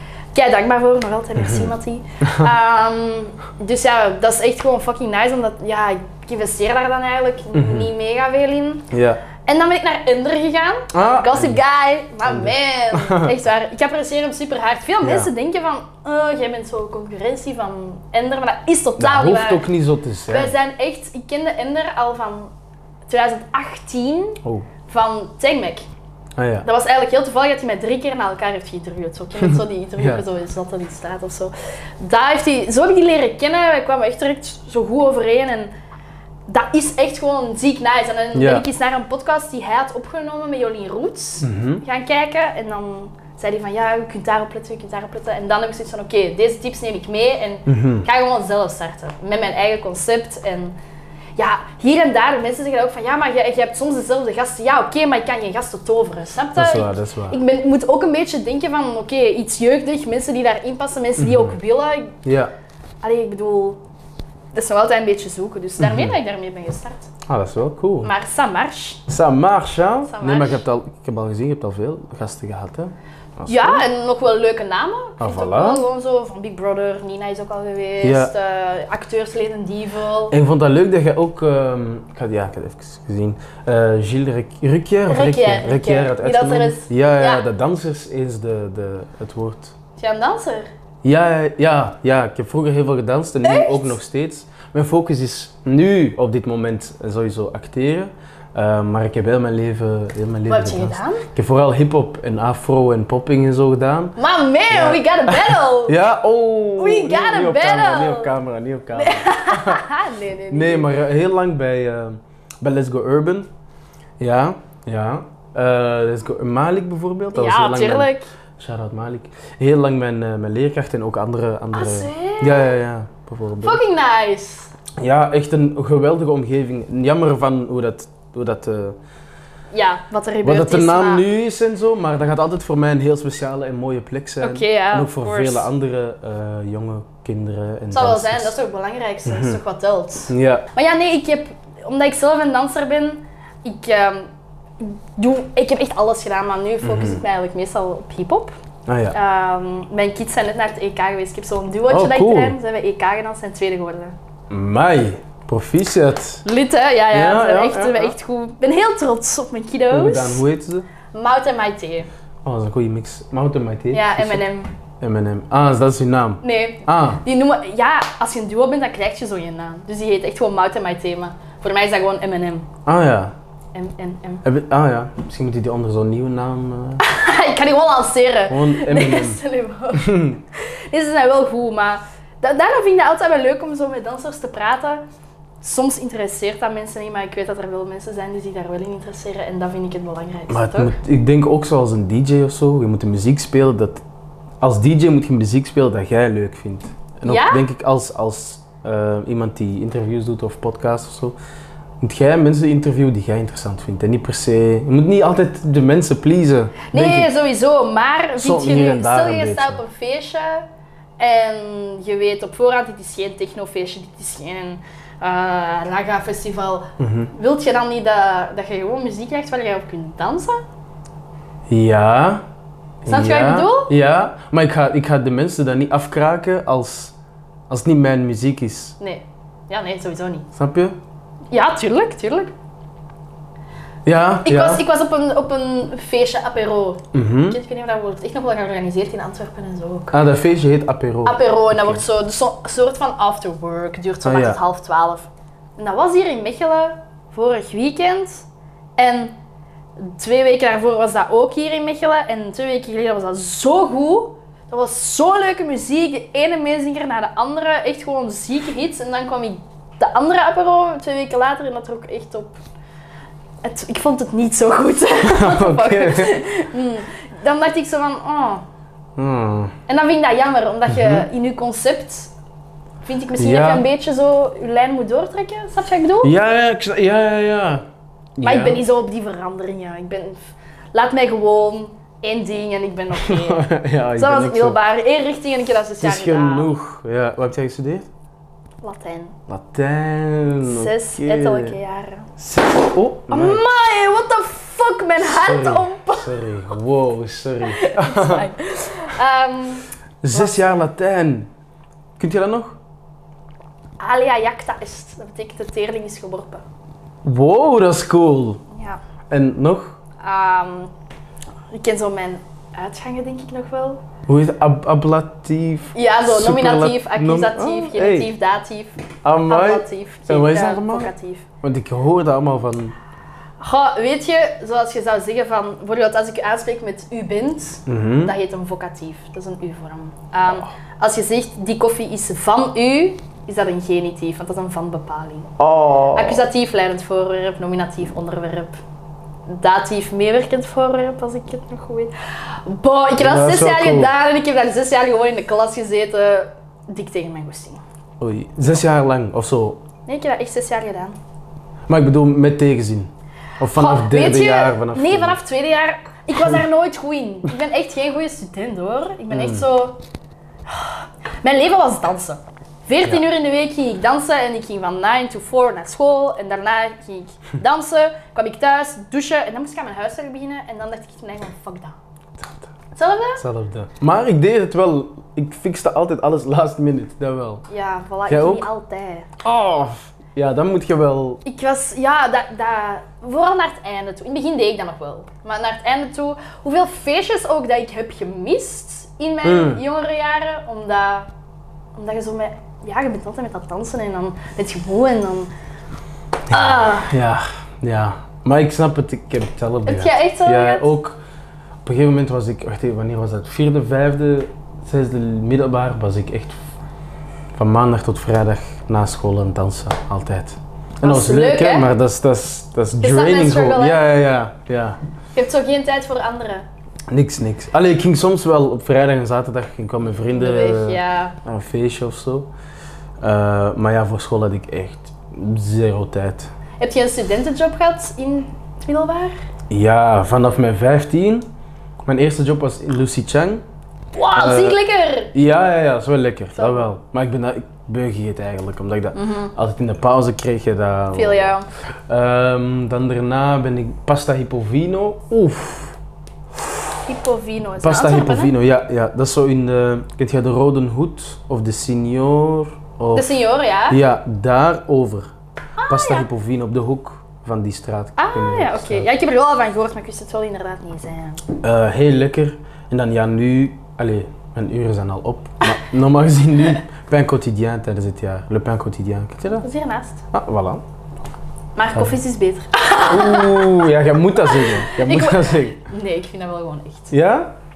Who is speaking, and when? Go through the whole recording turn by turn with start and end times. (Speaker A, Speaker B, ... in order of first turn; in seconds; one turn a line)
Speaker A: 0.3-8.8
Speaker B: 1.4-1.7
Speaker B: 2.2-2.5
Speaker B: 7.5-7.9
Speaker B: 8.9-9.2
Speaker A: 9.4-19.6
Speaker B: 10.9-11.6
Speaker B: 12.2-13.3
Speaker B: 15.0-15.3
Speaker B: 19.0-20.5
Speaker A: 20.3-22.5
Speaker A: 23.1-25.9
Speaker B: 26.4-26.7
Speaker A: 26.6-35.7
Speaker B: 29.4-30.2
Speaker A: 36.5-50.8
Speaker B: 38.3-38.6
Speaker B: 41.4-41.8
Speaker B: 47.6-48.1
Speaker A: 51.4-62.2
Speaker B: 56.5-57.4
Speaker B: 61.2-61.5
Speaker B: 62.2-62.5
Speaker A: 63.0-63.8
Speaker A: 64.5-67.1
Speaker B: 65.8-66.1
Speaker B: 67.3-68.1
Speaker A: 68.0-69.0
Speaker B: 69.1-73.8
Speaker A: 70.1-70.6
Speaker A: 73.5-80.3
Speaker B: 75.2-75.8
Speaker B: 78.0-78.3
Speaker B: 80.3-89.7
Speaker A: 85.1-87.4
Speaker A: 90.0-90.7
Speaker B: 91.0-104.1
Speaker A: 93.4-94.0
Speaker A: 100.5-101.2
Speaker A: 104.2-106.0
Speaker B: 104.7-109.8
Speaker A: 106.8-108.3
Speaker A: 108.9-110.9
Speaker B: 110.5-113.5
Speaker B: 114.2-123.8
Speaker A: 117.3-118.3
Speaker A: 121.7-122.7
Speaker A: 123.6-124.7
Speaker B: 125.0-129.0
Speaker A: 129.7-131.2
Speaker B: 130.4-138.6
Speaker A: 134.4-135.7
Speaker A: 137.9-148.5
Speaker B: 139.2-139.6
Speaker B: 140.3-140.7
Speaker B: 146.8-147.2
Speaker B: 148.9-149.2
Speaker A: 149.1-154.1
Speaker B: 151.9-152.6
Speaker B: 154.5-156.4
Speaker A: 156.4-160.4
Speaker B: 157.1-158.1
Speaker B: 159.9-160.9
Speaker A: 161.1-162.1
Speaker B: 162.4-164.4
Speaker A: 163.9-164.7
Speaker B: 165.0-167.2
Speaker A: 166.4-172.7
Speaker B: 172.8-173.3
Speaker A: 173.7-174.4
Speaker B: 174.4-177.0
Speaker A: 177.0-185.0
Speaker B: 178.5-179.4
Speaker B: 179.9-180.4
Speaker A: 185.6-190.9
Speaker B: 190.5-194.0
Speaker B: 194.6-201.4
Speaker A: 197.2-197.6
Speaker B: 202.0-207.3
Speaker A: 206.9-210.7
Speaker B: 208.4-209.8
Speaker A: 211.2-220.6
Speaker B: 217.0-217.3
Speaker B: 221.7-222.4
Speaker B: 223.0-227.1
Speaker A: 223.1-223.9
Speaker B: 227.7-228.9
Speaker A: 229.0-230.5
Speaker B: 230.5-230.9
Speaker A: 231.5-232.5
Speaker B: 234.0-234.8
Speaker A: 234.4-240.1
Speaker B: 237.1-237.6
Speaker B: 240.1-242.0
Speaker A: 241.2-248.4
Speaker B: 244.2-244.6
Speaker A: 249.0-249.3
Speaker A: 250.0-262.6
Speaker A: 263.6-268.6
Speaker B: 265.2-266.4
Speaker B: 269.2-269.7
Speaker A: 269.9-272.3
Speaker B: 270.9-271.2
Speaker A: 273.0-276.3
Speaker B: 273.4-273.9
Speaker B: 276.2-277.8
Speaker B: 278.4-278.8
Speaker A: 278.4-280.4
Speaker A: 280.9-286.7
Speaker B: 283.1-284.8
Speaker B: 286.0-288.1
Speaker A: 288.8-289.4
Speaker B: 289.5-291.8
Speaker A: 290.6-292.3
Speaker B: 292.4-293.6
Speaker A: 293.3-296.3
Speaker B: 295.2-298.5
Speaker A: 297.7-300.6
Speaker B: 300.2-301.5
Speaker B: 302.2-302.8
Speaker A: 304.0-306.6
Speaker B: 307.2-308.6
Speaker A: 308.7-309.0
Speaker B: 309.3-310.0
Speaker A: 310.2-310.9
Speaker A: 311.7-314.0
Speaker B: 314.3-318.3
Speaker A: 315.9-321.4
Speaker B: 319.2-321.1
Speaker B: 321.6-322.9
Speaker A: 323.6-335.5
Speaker B: 327.9-328.3
Speaker B: 335.6-336.4
Speaker A: 336.1-338.8
Speaker A: 339.5-347.8
Speaker B: 343.2-344.1
Speaker B: 348.2-349.8
Speaker A: 350.1-351.2
Speaker B: 351.9-355.4
Speaker A: 353.7-360.0
Speaker B: 359.3-359.6
Speaker A: 360.6-371.9
Speaker B: 372.4-372.7
Speaker A: 372.9-373.4
Speaker B: 373.4-377.6
Speaker A: 377.7-379.3
Speaker B: 378.3-378.7
Speaker B: 379.4-381.4
Speaker A: 381.4-391.3
Speaker B: 389.4-389.8
Speaker A: 391.9-395.5
Speaker B: 396.5-401.2
Speaker A: 396.5-397.1
Speaker A: 399.8-400.9
Speaker B: 401.8-406.6
Speaker B: 407.6-415.0
Speaker A: 411.0-411.9
Speaker A: 413.0-414.0
Speaker A: 415.3-416.6
Speaker B: 417.1-422.5
Speaker A: 420.3-421.4
Speaker B: 423.2-426.5
Speaker A: 426.8-429.3
Speaker B: 429.7-431.5
Speaker B: 432.1-433.6
Speaker A: 434.1-435.3
Speaker B: 434.3-434.8
Speaker B: 435.3-441.5
Speaker A: 436.6-436.8
Speaker A: 439.1-439.5
Speaker A: 441.1-441.7
Speaker B: 442.1-446.0
Speaker A: 447.1-448.5
Speaker B: 447.8-453.3
Speaker A: 453.1-454.0
Speaker B: 453.9-455.3
Speaker A: 455.8-456.3
Speaker B: 455.9-459.1
Speaker A: 458.2-461.4
Speaker B: 461.6-469.6
Speaker A: 469.5-470.2
Speaker B: 470.3-470.8
Speaker A: 471.8-473.8
Speaker B: 473.0-475.8
Speaker A: 474.4-477.1
Speaker B: 477.1-477.5